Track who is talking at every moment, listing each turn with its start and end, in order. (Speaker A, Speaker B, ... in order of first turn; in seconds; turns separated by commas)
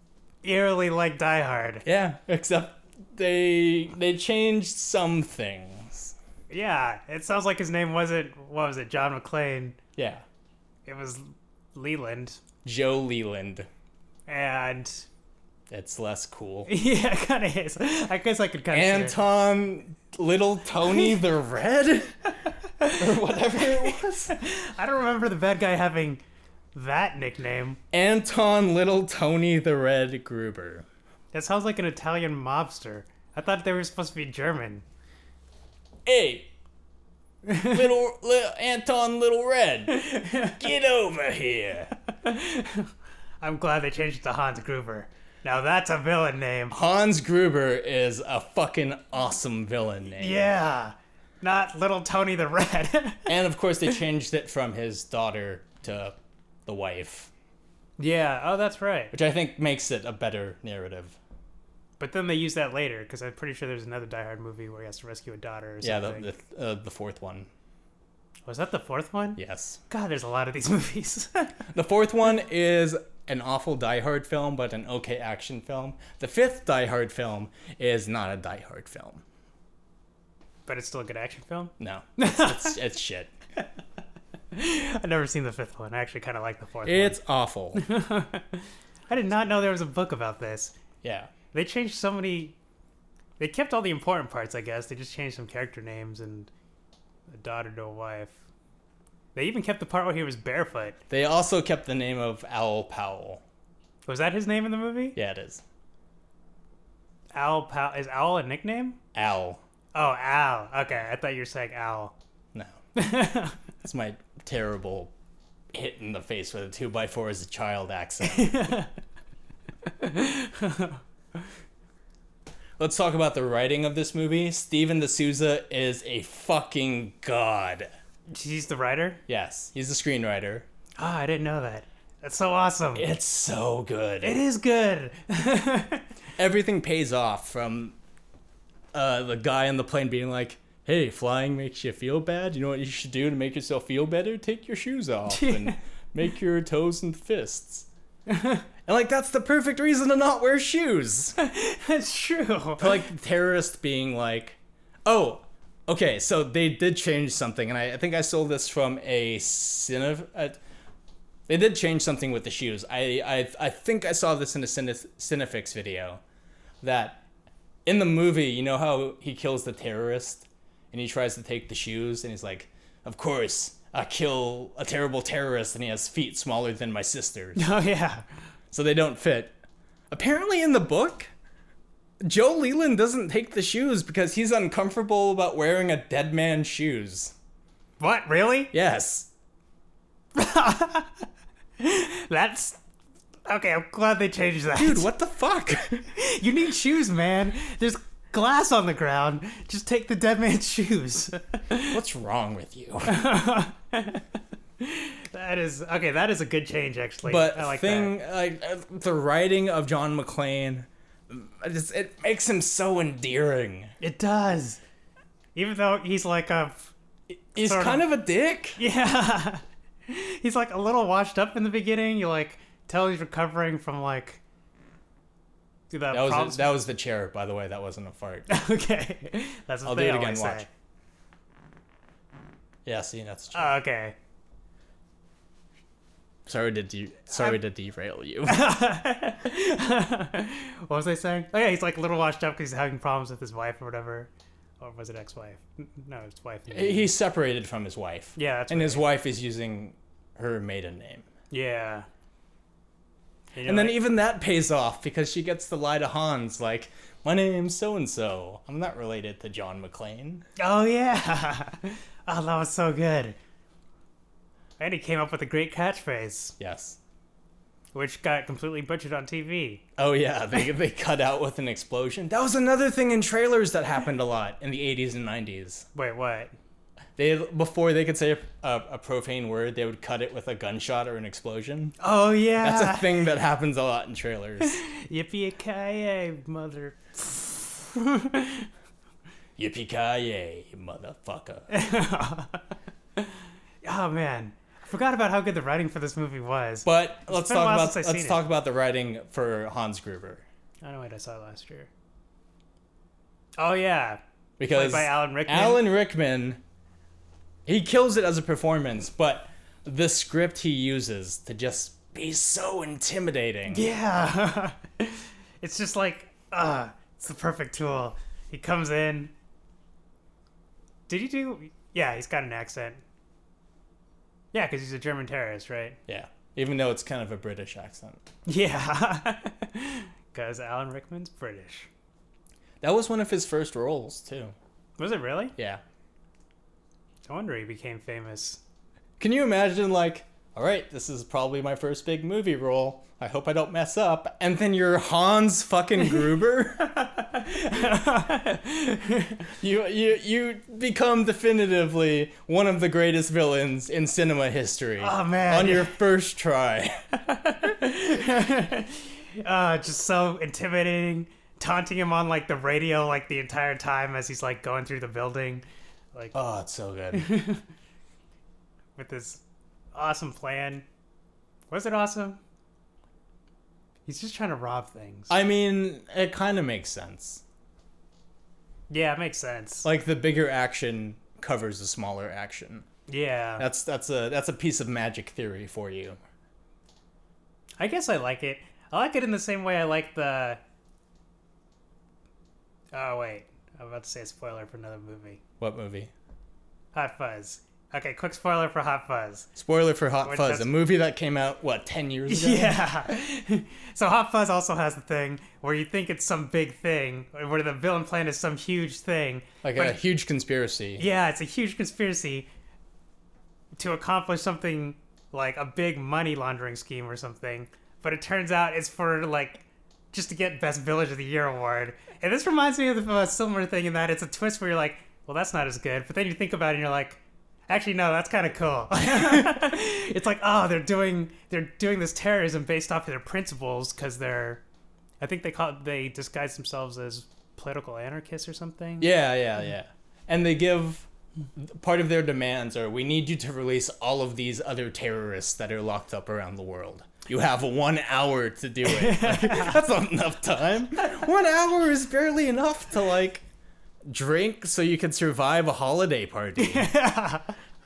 Speaker A: 0.4-1.8, Speaker B: 1.9-6.2, Speaker A: 6.5-9.8, Speaker B: 10.0-10.2, Speaker A: 10.9-12.4, Speaker B: 12.6-13.7, Speaker A: 14.3-15.1, Speaker B: 15.7-16.7, Speaker A: 16.7-19.2, Speaker B: 18.7-22.3, Speaker B: 22.9-24.4, Speaker A: 24.3-26.2, Speaker A: 26.8-27.8, Speaker B: 27.9-30.9, Speaker A: 31.3-34.9, Speaker B: 36.1-36.5, Speaker B: 37.6-41.9, Speaker A: 39.9-40.6, Speaker A: 42.2-42.9, Speaker A: 43.4-46.7, Speaker B: 46.7-50.5, Speaker A: 50.2-53.3, Speaker B: 53.3-57.3, Speaker A: 58.0-59.1, Speaker B: 59.1-61.2, Speaker A: 62.0-66.3, Speaker B: 65.8-67.5, Speaker A: 68.5-69.4, Speaker B: 69.4-69.8, Speaker A: 69.9-71.5, Speaker B: 71.7-79.2, Speaker A: 80.7-82.8, Speaker B: 81.8-83.3, Speaker A: 84.5-87.2, Speaker B: 86.8-87.8, Speaker A: 87.8-90.7, Speaker B: 91.0-91.3, Speaker A: 91.5-92.6, Speaker A: 93.4-96.5, Speaker A: 97.3-98.4, Speaker A: 99.3-101.0, Speaker B: 101.1-103.4, Speaker A: 104.1-105.2, Speaker B: 105.2-105.6, Speaker A: 107.3-109.0, Speaker B: 109.1-109.6, Speaker A: 109.9-112.2, Speaker A: 113.0-113.6, Speaker B: 113.8-115.1, Speaker B: 115.7-118.7, Speaker A: 118.2-118.9, Speaker A: 120.0-121.0, Speaker B: 122.8-127.9, Speaker A: 128.3-129.2, Speaker B: 129.3-130.7, Speaker A: 131.0-133.1, Speaker B: 132.9-134.4, Speaker A: 134.2-136.1, Speaker B: 136.4-138.0, Speaker B: 138.9-147.9, Speaker A: 145.3-145.8, Speaker A: 148.3-148.7, Speaker B: 148.9-151.4, Speaker A: 151.4-153.0, Speaker B: 152.8-160.6, Speaker B: 161.5-166.2, Speaker B: 166.8-167.2, Speaker B: 167.8-177.7, Speaker A: 177.6-178.3, Speaker B: 178.7-179.6, Speaker B: 180.1-181.3, Speaker B: 182.2-187.3, Speaker A: 188.0-188.7, Speaker B: 188.7-189.3, Speaker A: 190.3-191.3, Speaker A: 191.8-192.8, Speaker A: 193.5-195.1, Speaker B: 194.8-196.1, Speaker A: 196.1-202.0, Speaker B: 201.9-203.3, Speaker A: 203.1-204.2, Speaker A: 204.8-208.2, Speaker B: 207.2-213.9, Speaker A: 214.0-214.8, Speaker A: 215.6-216.9, Speaker B: 217.3-218.8, Speaker A: 217.6-218.1, Speaker A: 218.8-224.4, Speaker A: 225.9-226.8, Speaker B: 226.1-228.5, Speaker A: 228.5-230.7, Speaker B: 229.8-230.7, Speaker B: 232.8-233.8, Speaker A: 233.5-234.2, Speaker B: 236.5-238.7, Speaker A: 237.3-237.6, Speaker A: 238.5-247.1, Speaker B: 246.7-251.3, Speaker A: 248.4-249.1, Speaker A: 251.5-252.1, Speaker A: 253.5-254.0, Speaker B: 253.7-260.5, Speaker A: 260.6-263.4, Speaker A: 264.8-266.6, Speaker B: 266.6-267.0, Speaker A: 267.9-269.8, Speaker B: 270.0-275.9, Speaker A: 275.9-276.6, Speaker B: 277.2-282.0, Speaker A: 282.0-283.2, Speaker B: 282.6-284.8, Speaker A: 284.6-288.7, Speaker B: 289.6-291.7, Speaker A: 291.7-292.6, Speaker A: 293.8-298.4, Speaker B: 296.9-300.4, Speaker A: 300.8-301.9, Speaker A: 303.6-305.8, Speaker B: 304.6-306.6, Speaker B: 307.7-313.9, Speaker A: 313.7-319.3, Speaker A: 321.1-323.0, Speaker A: 324.5-326.0, Speaker B: 326.1-328.2, Speaker A: 328.5-331.9, Speaker B: 332.8-334.6, Speaker A: 335.0-335.5, Speaker B: 335.6-335.8, Speaker A: 337.3-338.6, Speaker B: 339.2-346.9, Speaker A: 347.0-349.4, Speaker B: 349.6-357.0, Speaker A: 355.0-356.0, Speaker A: 357.3-366.4, Speaker B: 366.3-367.3, Speaker A: 367.1-367.6, Speaker A: 369.0-369.4, Speaker A: 369.9-370.9, Speaker A: 371.7-372.4, Speaker A: 374.1-375.3, Speaker B: 375.3-377.4, Speaker A: 378.9-379.9, Speaker B: 379.8-382.9, Speaker A: 383.1-383.7, Speaker B: 383.6-386.2, Speaker A: 387.8-390.6, Speaker A: 392.9-395.4, Speaker B: 395.6-396.1, Speaker A: 396.9-399.5, Speaker B: 399.6-402.8, Speaker A: 400.2-400.7, Speaker A: 402.3-410.0, Speaker B: 409.6-411.1, Speaker A: 411.0-412.5, Speaker A: 413.8-434.6, Speaker A: 435.2-439.1, Speaker B: 439.0-453.4, Speaker A: 448.9-449.8, Speaker B: 454.1-456.9, Speaker A: 456.6-457.5